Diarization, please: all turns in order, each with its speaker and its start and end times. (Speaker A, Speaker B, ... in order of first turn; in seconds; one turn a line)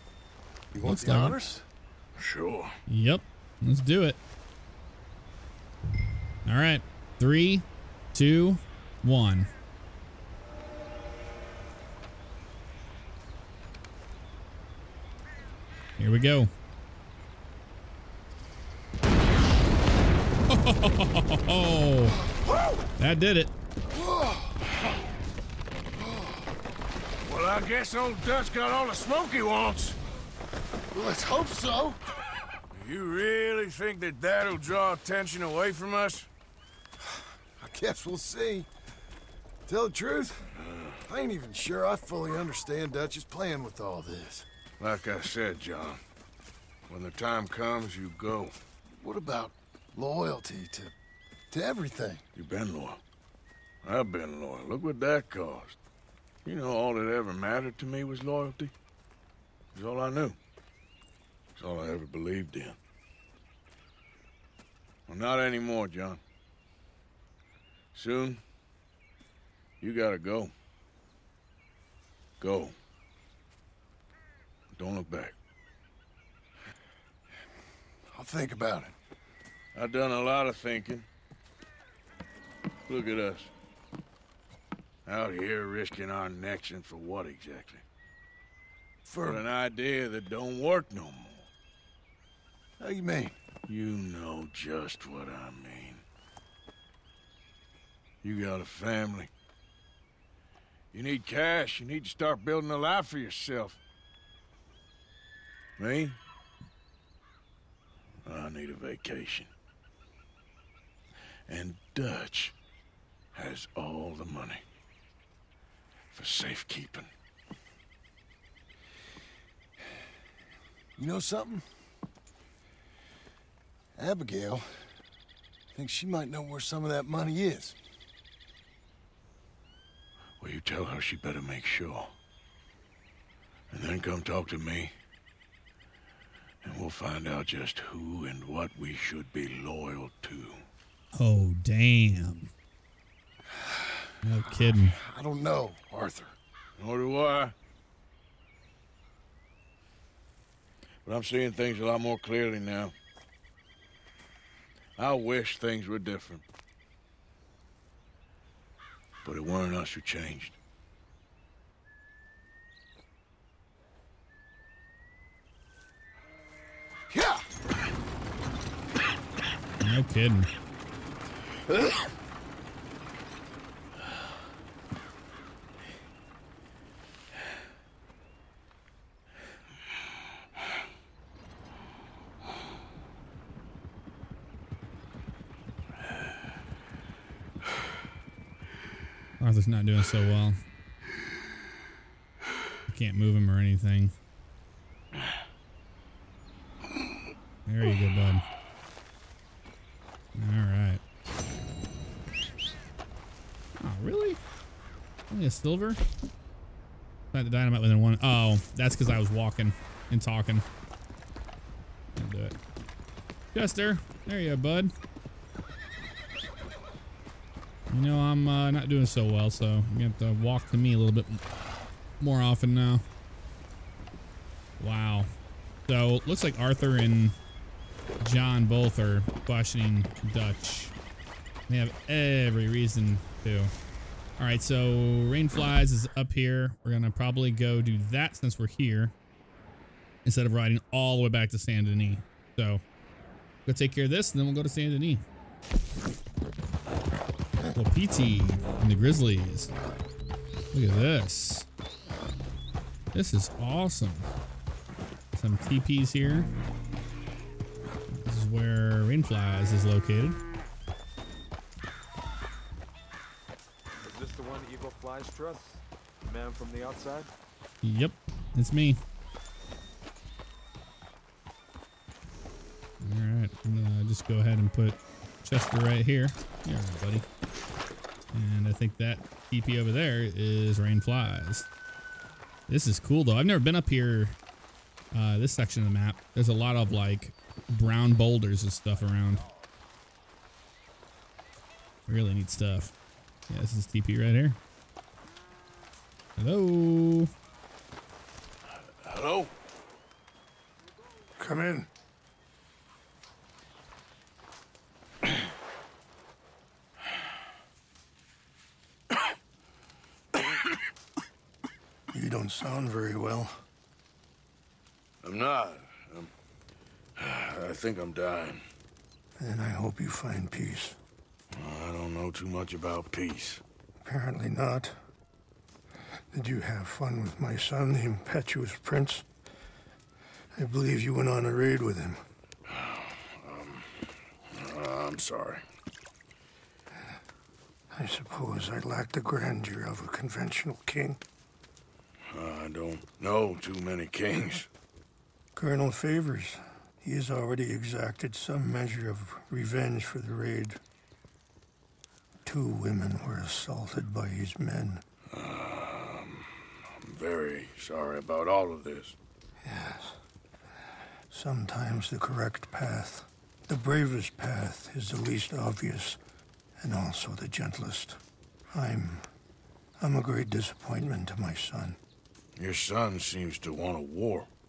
Speaker A: 0.7-1.6
Speaker B: 0.8-1.4
Speaker C: 2.2-2.8
Speaker B: 2.9-4.2
Speaker B: 6.5-9.5
Speaker B: 16.0-16.5
Speaker B: 20.5-22.2
Speaker A: 22.2-22.9
Speaker B: 23.0-23.5
Speaker A: 23.9-24.6
Speaker A: 26.0-26.3
Speaker C: 27.2-30.0
Speaker A: 30.9-32.0
Speaker C: 32.7-36.3
Speaker A: 37.6-38.7
Speaker A: 39.7-40.5
Speaker C: 40.6-41.0
Speaker A: 41.0-44.5
Speaker C: 44.8-46.0
Speaker C: 46.9-48.5
Speaker A: 48.9-50.9
Speaker A: 51.5-52.2
Speaker C: 52.4-53.0
Speaker C: 53.8-55.8
Speaker C: 56.5-58.7
Speaker C: 59.7-60.4
Speaker C: 61.6-62.8
Speaker C: 65.1-66.2
Speaker C: 67.9-68.4
Speaker C: 69.8-70.5
Speaker C: 72.4-72.8
Speaker C: 74.7-75.3
Speaker A: 78.1-78.9
Speaker C: 79.8-81.1
Speaker C: 82.9-83.5
Speaker C: 85.1-87.8
Speaker A: 89.0-89.5
Speaker C: 89.2-91.5
Speaker A: 92.8-93.3
Speaker C: 93.7-96.0
Speaker C: 98.2-99.3
Speaker C: 100.9-103.8
Speaker C: 105.8-106.2
Speaker C: 108.3-109.5
Speaker C: 111.5-112.5
Speaker C: 113.3-114.6
Speaker C: 116.1-117.1
Speaker A: 121.0-121.7
Speaker A: 124.0-124.9
Speaker A: 125.7-127.8
Speaker C: 130.4-132.1
Speaker C: 133.7-134.9
Speaker C: 136.6-140.6
Speaker B: 141.1-142.5
Speaker B: 144.2-145.0
Speaker A: 144.5-146.3
Speaker C: 146.8-147.5
Speaker C: 151.1-152.9
Speaker C: 155.0-156.4
Speaker C: 159.2-160.6
Speaker A: 167.1-167.4
Speaker B: 169.8-170.5
Speaker A: 171.7-172.0
Speaker B: 189.4-190.6
Speaker B: 192.9-194.2
Speaker B: 197.7-198.4
Speaker B: 200.4-201.0
Speaker B: 203.8-204.4
Speaker B: 205.3-206.0
Speaker B: 207.3-210.7
Speaker B: 212.2-212.6
Speaker B: 213.5-214.9
Speaker B: 217.9-221.4
Speaker B: 222.2-223.1
Speaker B: 224.8-225.3
Speaker B: 225.9-227.4
Speaker B: 228.2-230.9
Speaker B: 231.7-233.7
Speaker B: 234.4-239.1
Speaker B: 240.2-242.8
Speaker B: 243.7-245.2
Speaker B: 247.8-249.7
Speaker B: 250.7-251.7
Speaker B: 253.1-254.3
Speaker B: 255.3-256.5
Speaker B: 258.1-260.4
Speaker D: 264.0-267.3
Speaker B: 267.8-269.0
Speaker B: 273.0-277.3
Speaker B: 278.3-281.7
Speaker B: 282.7-284.4
Speaker B: 285.1-289.4
Speaker B: 292.1-292.9
Speaker B: 293.5-294.6
Speaker B: 296.4-297.3
Speaker C: 299.0-299.5
Speaker E: 301.4-301.9
Speaker E: 312.1-313.6
Speaker C: 315.2-316.3
Speaker C: 317.2-318.6
Speaker E: 319.4-321.0
Speaker C: 321.5-323.6
Speaker E: 324.0-324.9
Speaker E: 326.3-329.2
Speaker E: 330.6-332.2
Speaker C: 332.7-335.6
Speaker E: 337.9-341.2
Speaker C: 342.3-344.7
Speaker E: 345.6-350.8
Speaker E: 352.4-355.0
Speaker C: 355.3-359.2
Speaker E: 359.6-360.2
Speaker E: 361.3-366.2
Speaker E: 366.8-368.2
Speaker E: 368.7-369.3
Speaker E: 370.0-372.0
Speaker C: 372.6-374.5